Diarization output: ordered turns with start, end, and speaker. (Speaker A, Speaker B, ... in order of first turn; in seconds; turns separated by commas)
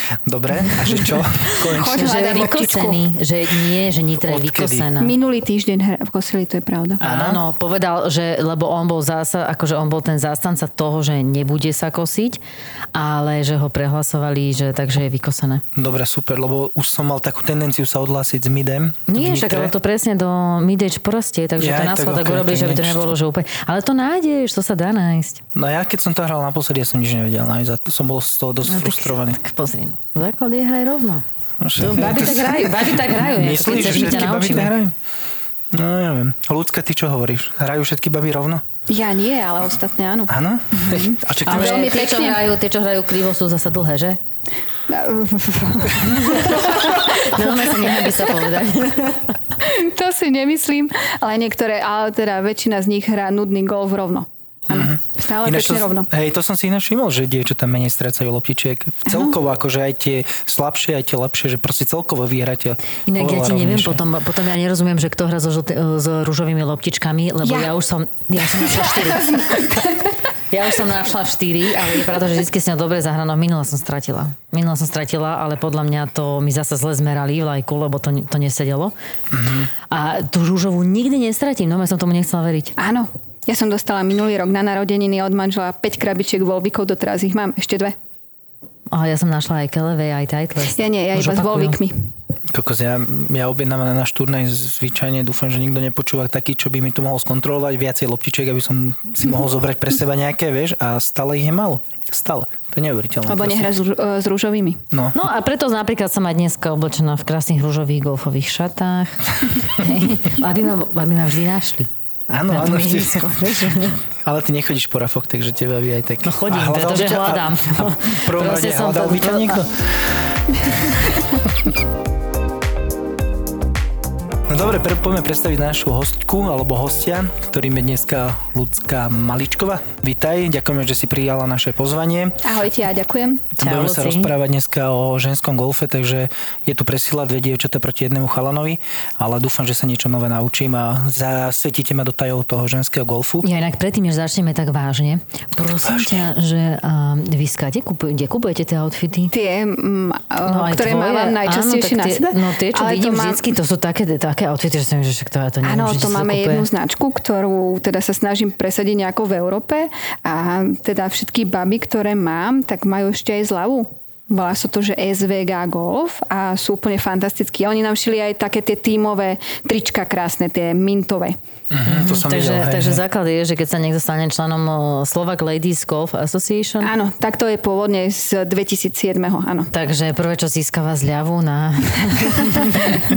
Speaker A: 0.2-2.2, Speaker B: 1.6-3.0, Speaker C: 1.8-5.1, Speaker A: 4.2-4.9, Speaker B: 5.0-7.0, Speaker C: 7.0-12.4, Speaker A: 7.0-7.4, Speaker C: 12.9-15.6, Speaker A: 15.7-19.7, Speaker C: 19.1-25.4, Speaker A: 21.6-23.1, Speaker A: 25.5-29.4, Speaker C: 28.6-31.2, Speaker A: 31.6-34.9, Speaker C: 31.8-34.7, Speaker A: 35.7-38.6, Speaker B: 38.9-42.4, Speaker A: 40.3-41.9, Speaker C: 41.5-44.2, Speaker B: 44.9-47.0, Speaker C: 46.1-49.3, Speaker B: 47.8-48.1, Speaker B: 49.6-56.1, Speaker A: 54.7-64.0, Speaker B: 59.0-59.4, Speaker C: 63.1-69.5, Speaker B: 67.4-67.7, Speaker B: 68.5-70.2, Speaker C: 70.5-78.9, Speaker A: 79.3-79.7, Speaker C: 79.9-82.7, Speaker B: 82.8-87.9, Speaker C: 88.9-91.8, Speaker B: 90.7-91.9, Speaker A: 92.5-103.7, Speaker B: 103.3-104.8, Speaker A: 104.9-105.2, Speaker C: 105.1-111.9, Speaker A: 112.3-121.1, Speaker C: 112.5-114.0, Speaker C: 116.2-119.6, Speaker A: 124.5-132.4, Speaker B: 132.4-133.5, Speaker A: 133.6-143.4, Speaker C: 133.6-134.3, Speaker C: 143.4-149.3, Speaker A: 145.8-146.2, Speaker B: 149.3-153.5, Speaker C: 150.4-156.7, Speaker B: 155.6-171.3, Speaker A: 171.7-173.0, Speaker C: 171.8-176.9, Speaker B: 176.8-179.7, Speaker C: 179.7-183.0